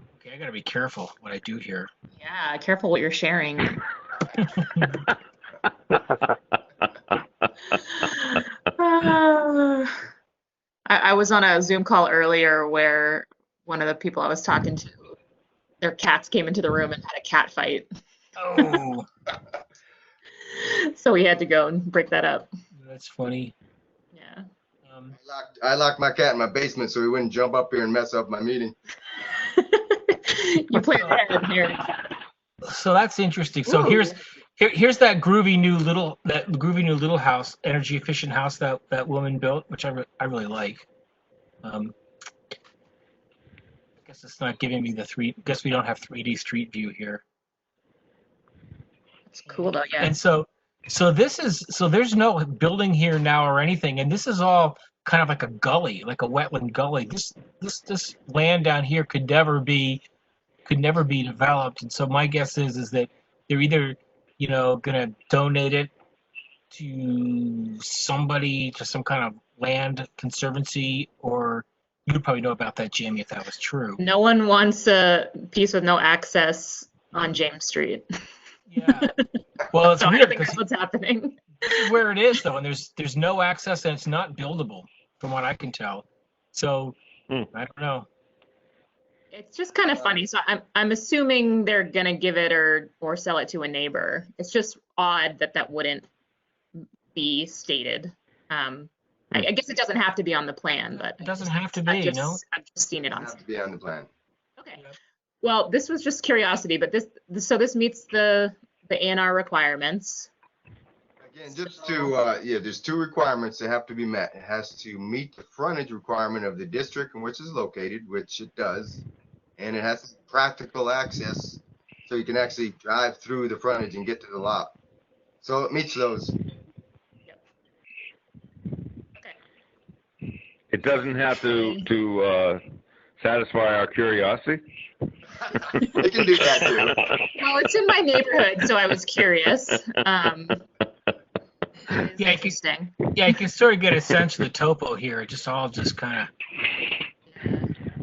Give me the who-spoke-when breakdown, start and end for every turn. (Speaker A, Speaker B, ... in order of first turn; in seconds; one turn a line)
Speaker A: 0.1-1.9
Speaker B: 2.1-3.8
Speaker A: 4.4-5.0
Speaker B: 7.7-10.0
Speaker B: 10.9-15.1
Speaker B: 15.8-17.9
Speaker A: 18.4-19.1
Speaker B: 20.4-22.5
Speaker A: 22.7-23.5
Speaker B: 24.1-24.4
Speaker A: 24.8-25.1
Speaker C: 25.1-28.7
Speaker B: 29.3-32.0
Speaker A: 30.8-31.2
Speaker A: 32.6-40.8
Speaker B: 33.7-34.1
Speaker A: 41.6-41.9
Speaker A: 44.0-47.2
Speaker B: 49.3-50.1
Speaker A: 49.5-60.0
Speaker A: 60.6-65.9
Speaker A: 66.7-74.0
Speaker B: 74.0-78.0
Speaker A: 78.7-79.1
Speaker A: 79.7-80.6
Speaker B: 80.0-81.8
Speaker A: 81.6-87.0
Speaker A: 87.5-88.1
Speaker B: 89.3-96.1
Speaker B: 97.1-103.4
Speaker A: 100.9-102.4
Speaker C: 103.1-104.1
Speaker B: 104.6-104.8
Speaker B: 105.4-110.3
Speaker C: 111.2-119.0
Speaker C: 119.6-124.7
Speaker C: 125.4-126.3
Speaker D: 130.7-132.6
Speaker B: 131.4-131.8
Speaker D: 133.2-134.6
Speaker C: 135.4-137.0
Speaker B: 137.4-140.6
Speaker B: 141.9-142.9
Speaker A: 142.2-142.6
Speaker A: 143.1-146.3
Speaker B: 147.3-147.7